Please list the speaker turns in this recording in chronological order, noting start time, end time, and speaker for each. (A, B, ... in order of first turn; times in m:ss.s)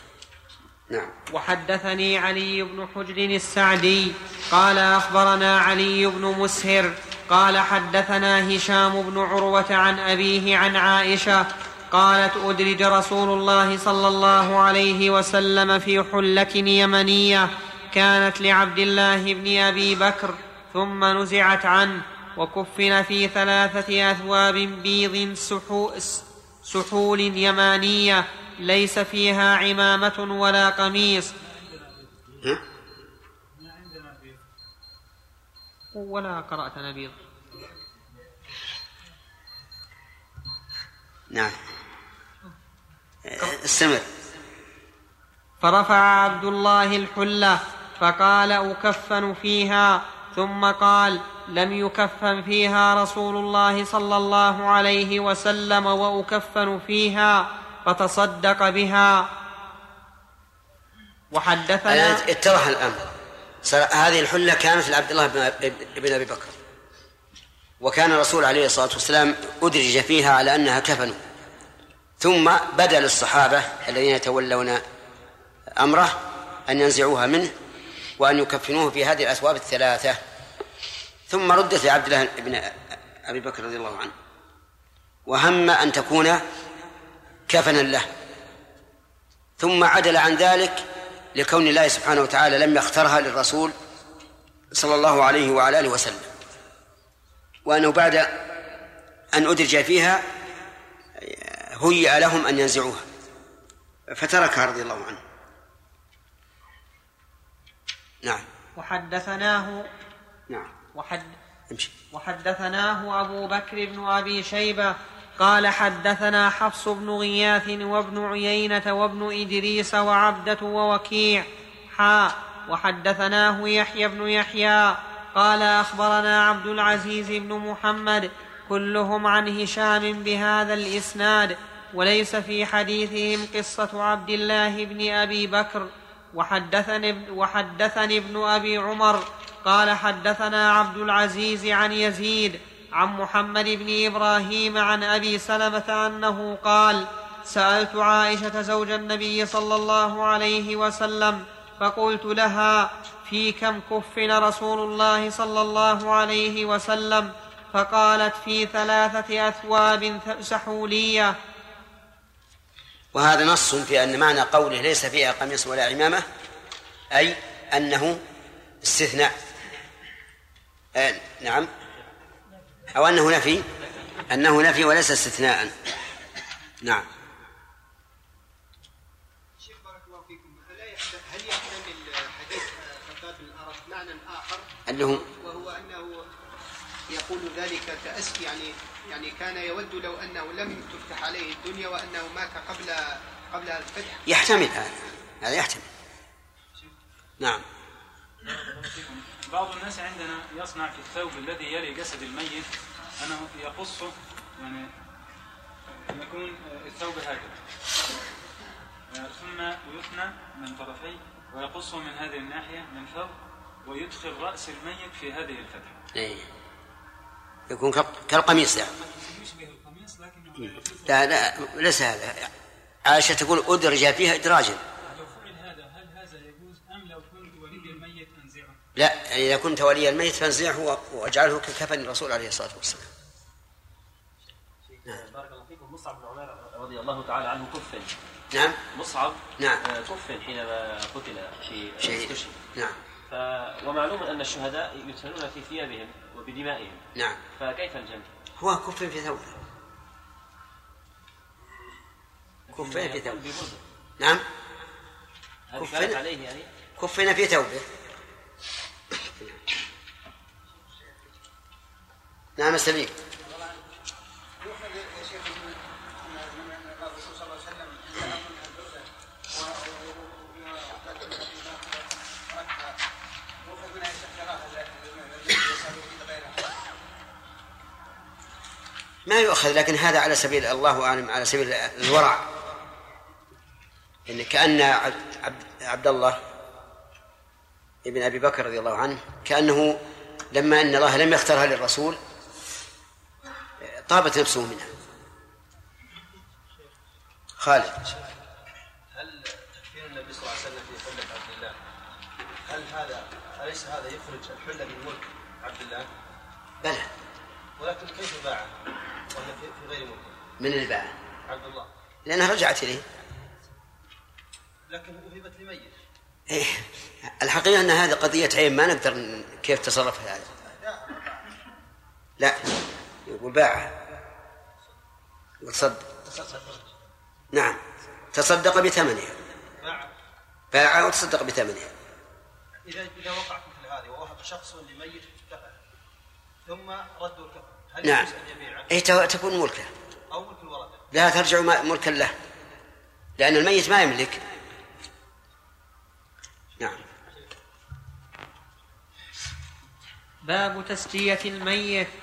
0:01.3-0:31.3 A
0:31.5-0:32.1 B
0:33.5-0:34.4 B
0:35.9-0:37.2 A
0:41.3-0:41.6 C
0:43.3-0:44.0 C
0:45.6-0:59.3 A
1:01.3-1:02.2 A
1:01.9-1:03.0 C
1:03.6-1:06.5 C
1:07.8-1:11.2 C
1:12.2-1:14.8 C
1:15.8-1:17.5 C
1:18.2-1:20.2 C
1:21.3-1:24.1 C
1:25.2-1:26.4 C
1:27.5-1:28.1 C
1:29.6-1:30.8 C
1:31.3-1:33.7 C
1:34.7-1:36.3 C
1:37.6-1:38.4 C
1:39.3-1:40.2 C
1:41.2-1:43.0 C
1:44.1-1:45.2 C
1:48.8-1:49.9 A
1:50.9-1:51.4 A
1:52.1-2:41.3 A
2:43.1-2:46.2 C
2:47.1-2:48.2 C
2:48.8-2:49.3 C
2:51.0-2:51.7 C
2:52.9-2:53.7 C
2:54.3-2:55.7 C
2:56.8-2:57.1 C
2:59.6-3:06.2 D
3:04.9-3:05.2 C
3:07.1-3:14.2 D
3:14.2-3:15.8 C
3:18.4-3:22.7 B
3:23.2-3:24.8 B
3:26.1-3:27.6 B
3:29.1-3:36.0 B
3:36.1-3:36.4 C
3:37.7-3:38.9 C
3:39.0-3:41.3 B
3:41.1-3:42.5 C
3:43.0-3:44.8 C
3:45.0-3:48.8 B
3:49.0-3:53.1 C
3:54.8-3:58.1 E
3:58.5-3:58.8 C
3:58.9-4:02.6 E
4:02.0-4:03.0 C
4:03.3-4:07.0 E
4:07.5-4:08.3 E
4:08.6-4:09.5 C
4:12.7-4:13.8 E
4:12.7-4:13.4 C
4:15.7-4:16.7 E
4:15.8-4:16.2 C
4:17.0-4:17.8 C
4:22.6-4:23.1 C
4:23.4-4:23.7 D
4:24.6-4:32.9 D
4:33.6-4:36.8 D
4:39.3-4:42.4 C
4:44.3-4:46.4 C
4:48.0-4:50.0 C
4:50.5-4:52.2 C
4:53.9-4:54.9 C
4:57.6-4:58.0 C
4:59.1-5:01.8 F
5:02.7-5:06.1 F
5:06.8-5:07.1 C
5:07.8-5:08.7 F
5:09.3-5:10.4 F
5:10.6-5:11.1 C
5:11.5-5:11.9 F
5:12.3-5:13.0 C
5:14.8-5:15.9 F
5:16.5-5:16.8 C
5:17.4-5:20.5 C
5:22.4-5:22.6 C
5:23.2-5:23.9 C
5:25.6-5:26.0 C
5:26.2-5:26.9 F
5:27.5-5:27.8 C
5:28.3-5:29.3 C
5:29.8-5:30.1 F
5:30.7-5:31.9 C
5:32.8-5:35.8 F
5:36.6-5:38.9 F
5:38.9-5:39.9 C
5:40.3-5:41.0 F
5:41.1-5:42.3 C
5:43.4-5:44.4 C
5:50.4-5:52.1 A